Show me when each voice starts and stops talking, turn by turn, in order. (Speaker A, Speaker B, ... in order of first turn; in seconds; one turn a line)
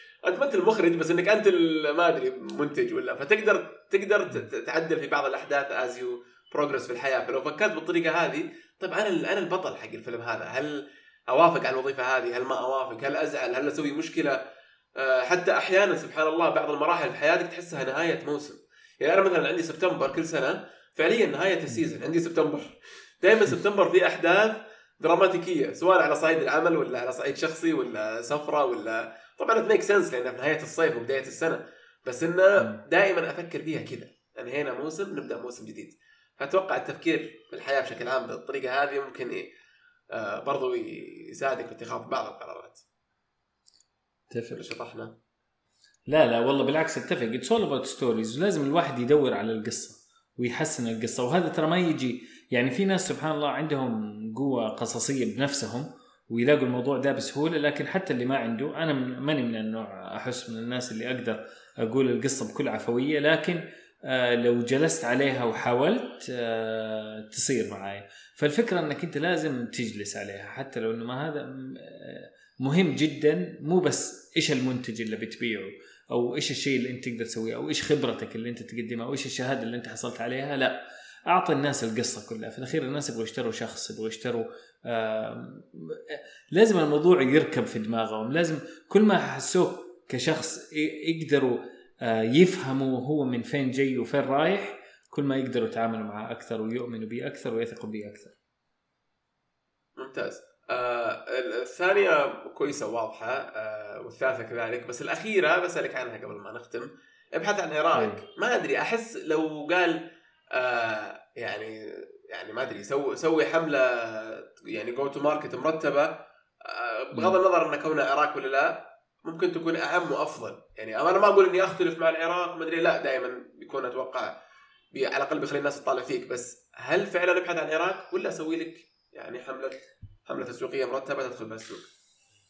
Speaker A: 0.2-14.4
Speaker A: 15.0-39.5
Speaker A: 40.1-42.8
Speaker B: 44.3-44.7
Speaker A: 44.5-45.1
Speaker B: 46.1-98.3
Speaker A: 100.0-110.0
Speaker B: 107.9-108.2
Speaker A: 110.5-124.3
Speaker A: 124.9-131.9